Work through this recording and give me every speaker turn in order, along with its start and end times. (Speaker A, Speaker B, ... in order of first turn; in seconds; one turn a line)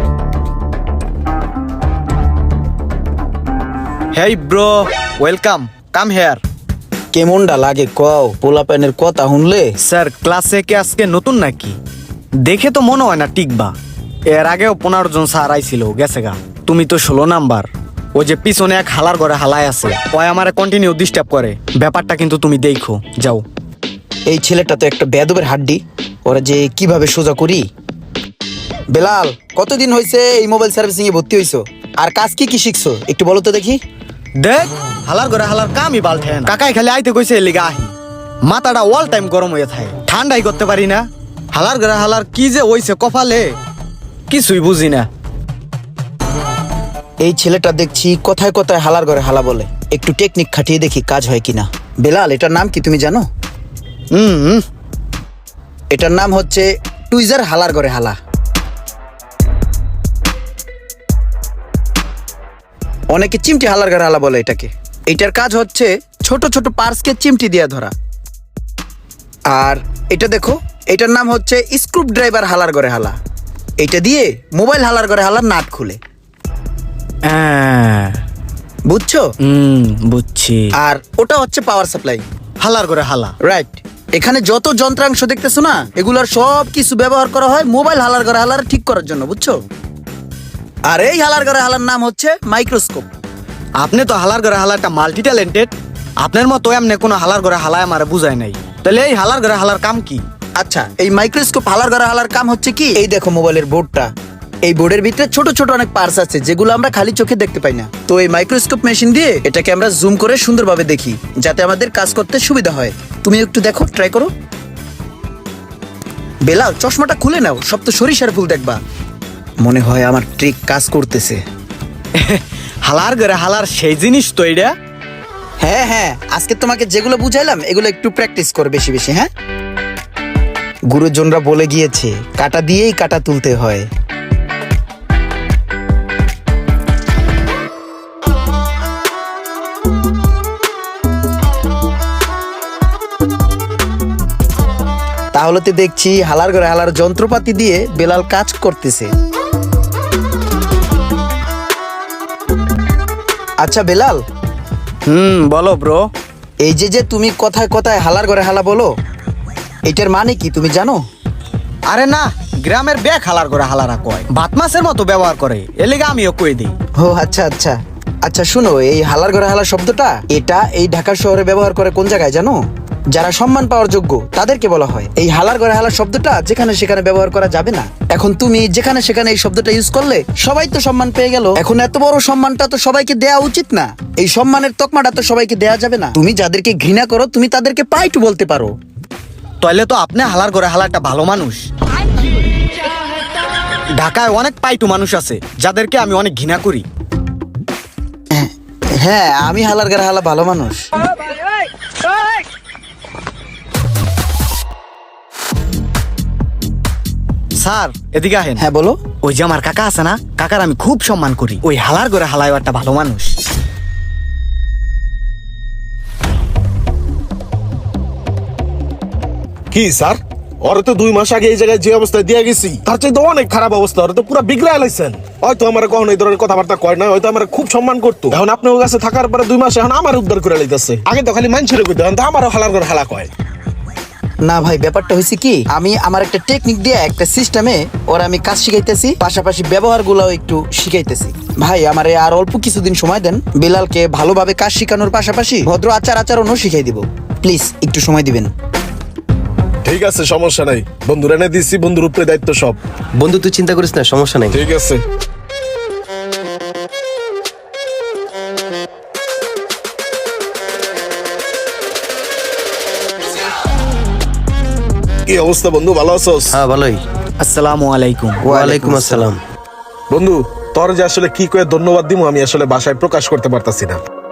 Speaker A: 4.1-6.4
Speaker B: 7.1-9.7
Speaker A: 9.8-11.8
Speaker A: 12.4-13.7
Speaker A: 14.3-23.4
Speaker B: 24.3-27.6
Speaker B: 28.9-33.8
Speaker A: 34.4-43.6
Speaker A: 44.3-45.1
Speaker B: 47.2-53.3
Speaker A: 54.1-54.6
Speaker B: 55.9-58.1
Speaker B: 63.1-67.9
Speaker B: 69.5-73.2
Speaker B: 73.8-76.0
Speaker A: 77.2-78.2
Speaker B: 78.9-79.2
Speaker A: 79.4-80.7
Speaker B: 80.8-82.2
Speaker A: 82.6-83.3
Speaker B: 83.4-89.6
Speaker B: 90.9-93.0
Speaker A: 93.8-100.2
Speaker B: 100.6-104.1
Speaker B: 104.6-114.3
Speaker B: 116.4-118.8
Speaker B: 119.6-121.4
Speaker A: 122.2-124.8
Speaker B: 125.6-129.3
Speaker B: 130.9-133.9
Speaker B: 145.3-149.1
Speaker B: 153.6-154.2
Speaker A: 155.1-156.1
Speaker B: 156.6-158.9
Speaker B: 159.8-161.0
Speaker A: 161.9-166.7
Speaker B: 167.0-172.6
Speaker B: 173.1-188.7
Speaker A: 189.6-191.7
Speaker A: 194.0-196.8
Speaker B: 198.3-200.9
Speaker A: 207.6-208.6
Speaker B: 208.6-209.0
Speaker A: 209.2-213.3
Speaker C: 219.7-233.3
Speaker B: 234.4-248.5
Speaker C: 249.8-252.8
Speaker D: 253.2-254.6
Speaker C: 254.5-255.0
Speaker C: 265.3-266.5
Speaker D: 266.5-267.0
Speaker A: 267.4-268.5
Speaker B: 268.4-269.3
Speaker D: 268.5-269.4
Speaker C: 270.1-274.0